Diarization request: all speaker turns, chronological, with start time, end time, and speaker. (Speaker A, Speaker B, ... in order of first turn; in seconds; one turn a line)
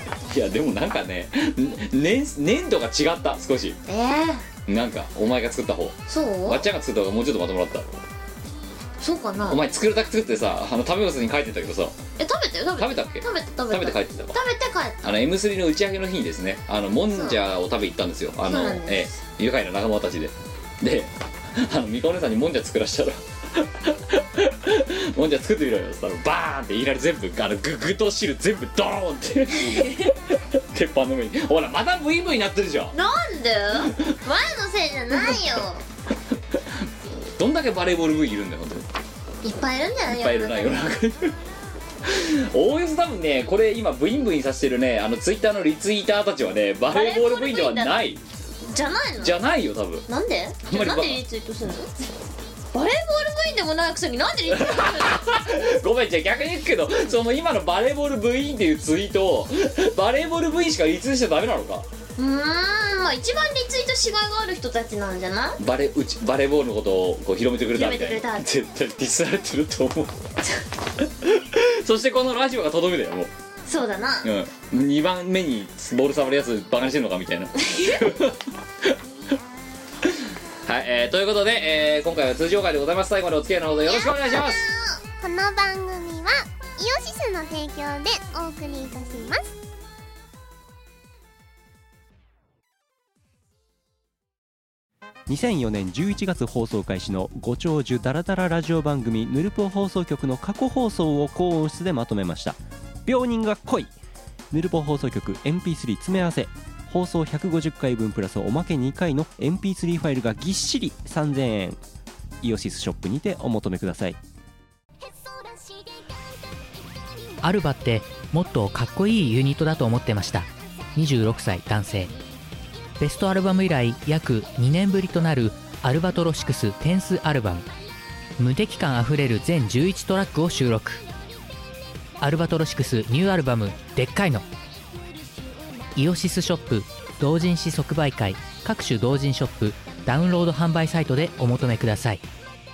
Speaker A: 0.3-3.8
Speaker B: 3.9-4.4
Speaker A: 4.7-8.0
Speaker B: 6.1-6.6
Speaker B: 9.0-9.6
Speaker A: 9.5-11.9
Speaker B: 12.2-15.1
Speaker A: 12.8-14.3
Speaker A: 15.0-32.9
Speaker B: 17.1-17.4
Speaker B: 18.4-19.1
Speaker B: 32.9-35.8
Speaker A: 37.4-38.8
Speaker B: 39.4-40.9
Speaker A: 40.1-41.3
Speaker A: 42.0-48.2
Speaker B: 46.9-48.0
Speaker B: 48.6-49.4
Speaker A: 49.2-50.0
Speaker B: 50.1-51.9
Speaker A: 50.6-51.2
Speaker B: 52.7-55.5
Speaker A: 54.6-61.8
Speaker B: 62.2-65.6
Speaker A: 65.6-70.1
Speaker B: 67.7-68.5
Speaker A: 71.0-73.3
Speaker B: 73.7-74.3
Speaker A: 74.2-78.9
Speaker B: 77.6-78.0
Speaker A: 80.7-84.6
Speaker B: 84.4-84.9
Speaker C: 85.2-89.5
Speaker D: 95.3-103.9
Speaker D: 104.5-111.8
Speaker D: 112.4-114.2
Speaker E: 117.4-122.1
Speaker E: 123.0-127.7
Speaker E: 128.4-131.0
Speaker E: 132.2-134.4
Speaker E: 135.9-142.2